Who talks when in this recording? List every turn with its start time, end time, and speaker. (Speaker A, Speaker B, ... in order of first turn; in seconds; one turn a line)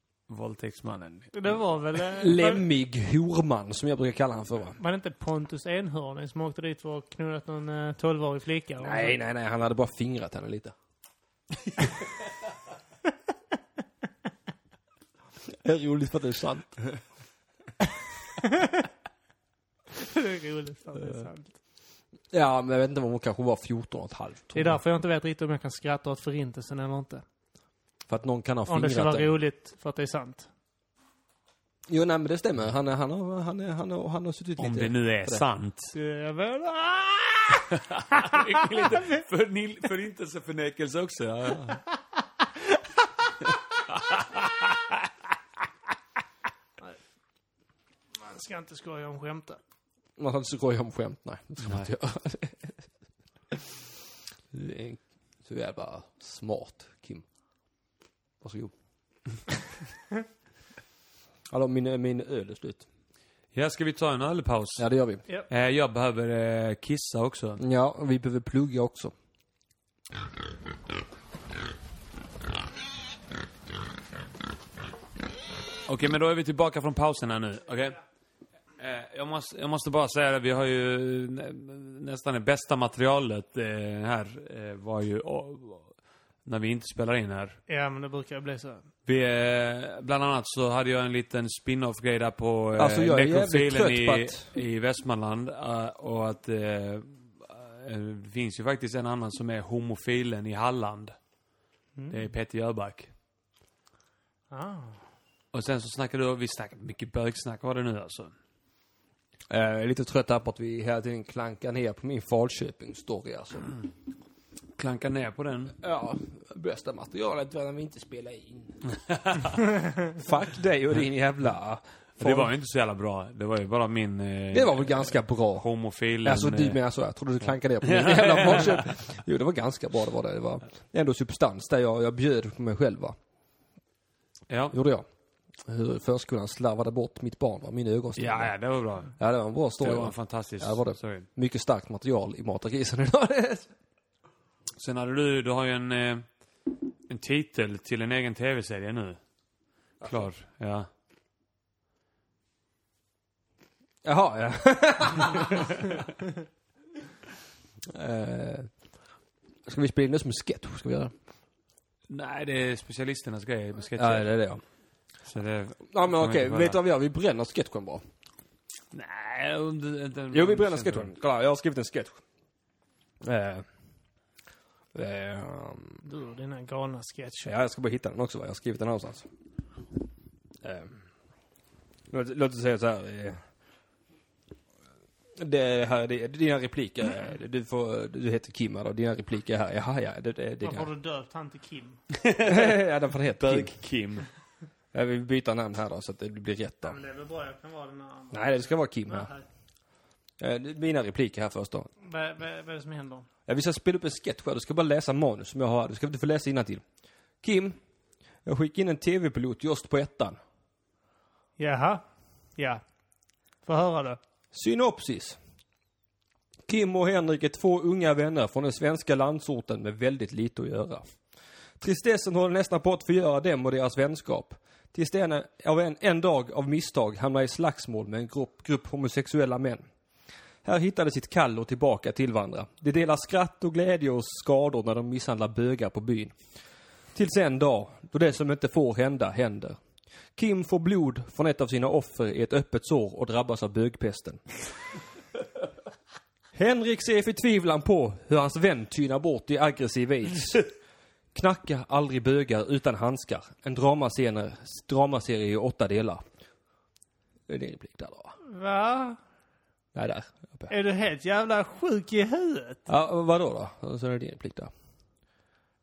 Speaker A: 0.3-1.6
Speaker B: 1.3-2.6
Speaker C: 2.2-4.8
Speaker B: 4.8-9.2
Speaker C: 8.8-10.7
Speaker C: 15.5-17.0
Speaker B: 18.4-18.8
Speaker B: 20.0-21.5
Speaker C: 22.3-24.8
Speaker B: 24.6-27.2
Speaker C: 28.1-29.4
Speaker B: 28.7-30.5
Speaker C: 31.9-35.4
Speaker A: 34.6-36.0
Speaker B: 36.0-39.2
Speaker A: 37.7-41.8
Speaker A: 43.9-44.8
Speaker B: 48.2-49.6
Speaker C: 50.2-52.7
Speaker A: 51.6-51.9
Speaker C: 54.5-57.2
Speaker C: 58.4-58.7
Speaker C: 61.5-62.9
Speaker A: 63.5-64.8
Speaker C: 64.8-65.2
Speaker A: 65.5-67.6
Speaker C: 67.6-69.1
Speaker A: 75.9-78.0
Speaker A: 78.8-85.9
Speaker A: 86.5-87.6
Speaker B: 87.7-88.9
Speaker A: 89.1-101.2
Speaker C: 92.8-94.5
Speaker B: 102.0-102.3
Speaker A: 102.1-103.1
Speaker B: 104.5-105.0
Speaker A: 105.5-108.3
Speaker C: 109.5-113.7
Speaker A: 114.8-115.8
Speaker C: 115.8-118.8
Speaker A: 119.0-119.6
Speaker C: 120.0-122.5
Speaker A: 122.2-126.8
Speaker C: 124.5-125.7
Speaker C: 126.2-133.2
Speaker A: 127.8-128.9
Speaker A: 134.5-134.8
Speaker C: 134.7-135.1
Speaker C: 135.7-138.5
Speaker A: 138.2-139.1
Speaker C: 139.2-143.7
Speaker A: 139.8-141.3
Speaker A: 144.8-146.3
Speaker A: 147.1-149.2
Speaker A: 150.0-150.9
Speaker C: 154.0-156.0
Speaker C: 157.9-158.7
Speaker C: 159.7-161.1
Speaker A: 162.1-164.3
Speaker C: 164.0-164.6
Speaker A: 165.2-166.8
Speaker C: 165.9-168.0
Speaker A: 168.9-171.1
Speaker C: 170.3-172.2
Speaker C: 173.2-173.7
Speaker C: 174.9-176.0
Speaker B: 176.1-177.5
Speaker C: 177.5-179.3
Speaker C: 180.6-181.0
Speaker C: 182.1-183.4
Speaker C: 185.4-190.9
Speaker B: 190.6-192.0
Speaker A: 192.1-192.8
Speaker C: 192.4-193.7
Speaker A: 193.4-194.3
Speaker C: 194.9-197.0
Speaker B: 196.8-199.4
Speaker C: 198.3-199.3
Speaker C: 200.4-201.9
Speaker B: 202.0-203.3
Speaker C: 203.5-206.8
Speaker C: 207.4-207.8
Speaker C: 208.4-210.4
Speaker B: 211.6-212.0
Speaker B: 212.6-212.8
Speaker B: 213.7-214.2
Speaker C: 214.5-215.4
Speaker C: 216.7-221.1
Speaker C: 221.8-229.8
Speaker C: 230.7-236.3
Speaker C: 237.2-239.8
Speaker C: 240.4-244.4
Speaker C: 246.5-250.7
Speaker C: 251.3-256.2
Speaker C: 257.5-258.4
Speaker B: 258.4-259.2
Speaker C: 259.9-260.7
Speaker B: 260.7-262.8
Speaker C: 262.9-264.7